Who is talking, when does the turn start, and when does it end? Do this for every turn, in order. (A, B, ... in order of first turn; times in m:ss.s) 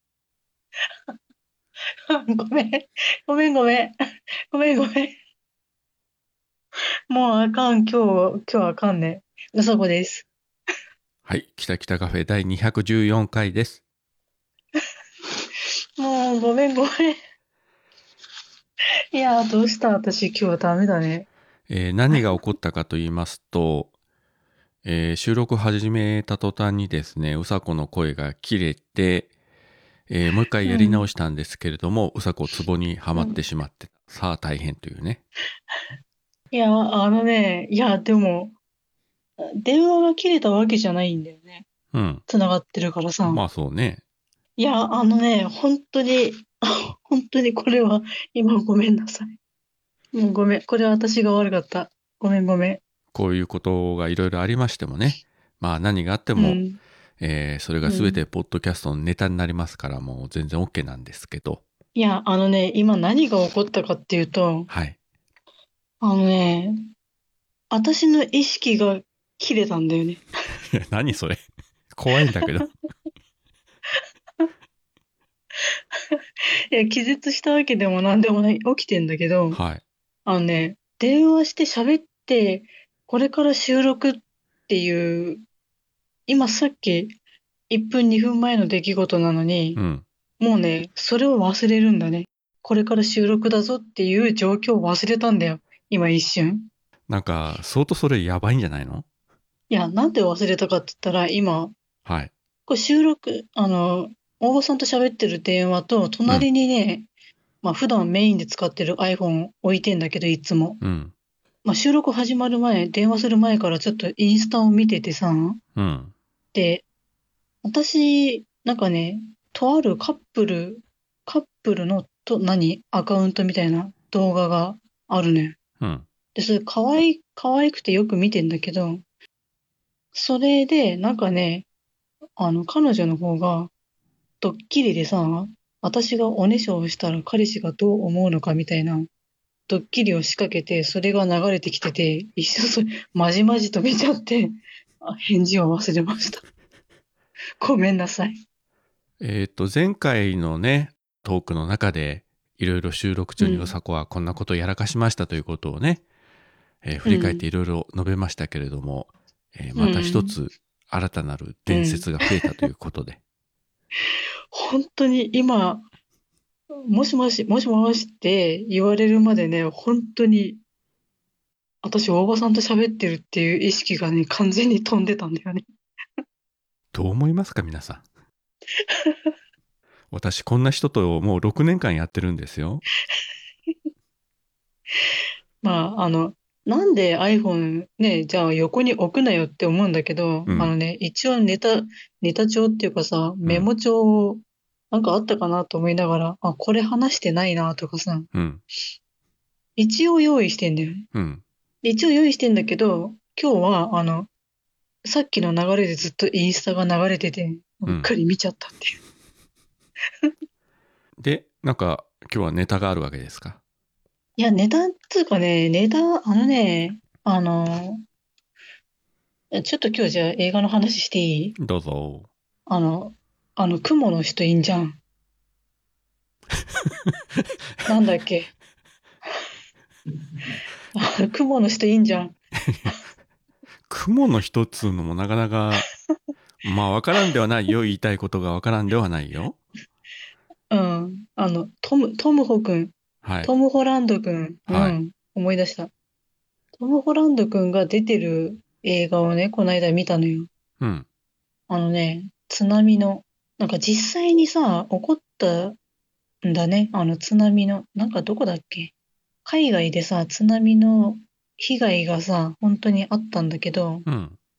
0:02.1-0:04.0 A
0:04.5-0:05.2 A
0:07.1-0:10.3 A
0:11.3-0:13.8 B
0:16.0-0:17.2 A
0:19.1-0:21.3 A
0:21.7-0:23.9 B
0:24.8-0:29.3 B
0:30.1-0:35.2 B
0:30.7-0:31.0 A
0:36.5-0:38.6 A
0:39.4-0:41.6 A
0:41.9-0:42.2 B
0:42.3-0:43.4 A
0:43.3-0:44.0 B
0:44.6-0:49.4 A
0:50.1-0:52.8 A
0:53.1-0:56.6 B
0:56.4-0:56.8 A
0:57.2-1:01.6 B
0:57.8-0:58.2 A
1:02.0-1:04.7 A
1:04.7-1:05.0 B
1:06.0-1:06.8 A
1:07.7-1:10.2 A
1:10.7-1:11.4 B
1:11.9-1:12.7 B
1:16.7-1:19.6 A
1:19.5-1:19.8 B
1:20.3-1:25.4 A
1:26.3-1:27.1 A
1:27.7-1:29.8 A
1:29.8-1:30.0 B
1:30.4-1:36.7 A
1:37.1-1:39.0 B
1:39.7-1:41.8 A
1:42.1-1:42.3 B
1:42.7-1:47.1 A
1:47.6-1:50.8 A
1:50.8-1:51.1 B
1:51.6-1:55.6 A
1:55.8-1:56.1 B
1:56.5-1:56.8 A
1:57.6-2:05.6 A
2:05.8-2:06.1 B
2:06.4-2:09.0 A
2:10.1-2:11.6 A
2:12.4-2:13.7 A
2:14.4-2:19.1 A
2:19.7-2:26.4 A
2:27.6-2:28.4 A
2:29.2-2:36.0 B
2:33.4-2:33.7 A
2:36.8-2:43.2 B
2:37.0-2:37.4 A
2:39.8-2:40.4 A
2:41.7-2:42.1 A
2:44.5-2:45.9 A
2:46.7-2:50.6 A
2:51.8-2:55.6 A
2:56.9-2:58.0 B
2:58.9-2:59.3 A
3:00.1-3:02.8 B
3:05.6-3:18.3 A
3:10.5-3:10.7 B
3:18.3-3:18.6 B
3:19.8-3:21.1 A
3:21.1-3:21.4 B
3:21.8-3:24.3 A
3:25.0-3:29.0 A
3:31.2-3:33.6 B
3:34.4-3:38.0 A
3:39.5-3:41.6 A
3:41.6-3:42.3 B
3:42.7-3:45.0 A
3:47.9-3:48.5 A
3:51.0-3:52.4 A
3:52.7-3:52.9 B
3:53.9-3:55.9 B
3:55.8-3:56.1 A
3:56.6-3:59.6 B
4:00.7-4:05.9 A
4:03.2-4:03.5 B
4:04.7-4:05.0 B
4:06.8-4:10.5 A
4:10.8-4:11.1 B
4:11.7-4:15.8 A
4:16.4-4:18.9 A
4:19.4-4:24.1 A
4:24.1-4:24.4 B